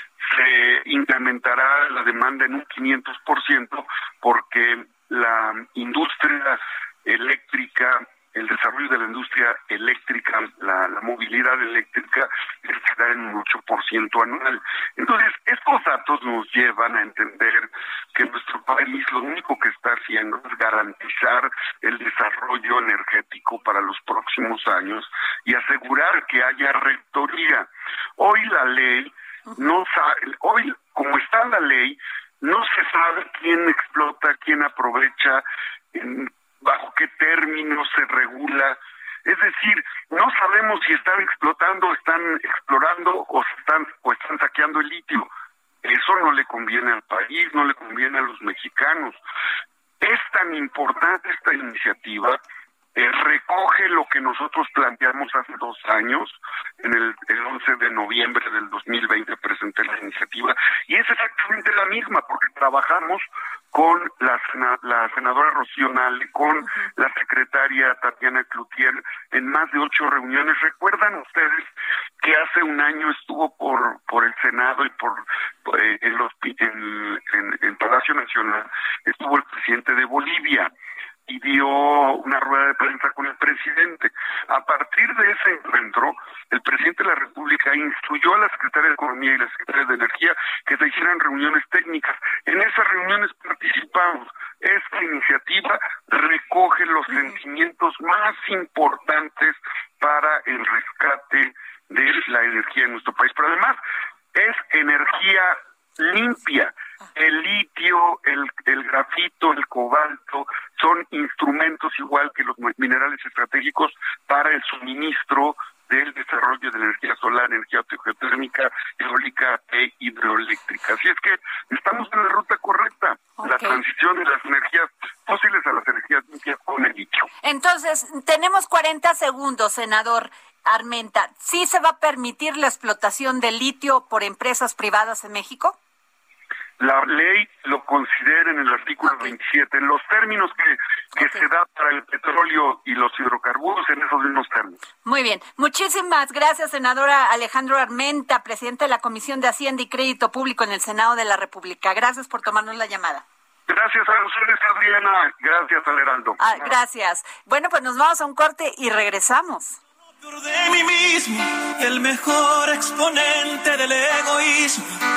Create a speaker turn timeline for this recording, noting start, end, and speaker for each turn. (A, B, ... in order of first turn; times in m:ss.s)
0:00.2-0:45.3 A
0:45.8-0:49.2 A
0:50.0-0:52.4 A
0:53.0-1:11.7 A
1:12.2-1:20.7 A
1:21.3-1:43.8 A
1:44.3-2:07.3 A
2:03.4-2:03.8 B
2:07.4-2:15.8 B
2:16.8-2:24.8 A
2:19.0-2:19.3 B
2:21.2-2:21.4 B
2:25.0-2:33.2 B
2:33.7-2:36.4 A
2:36.4-2:39.8 B
2:40.2-2:44.9 C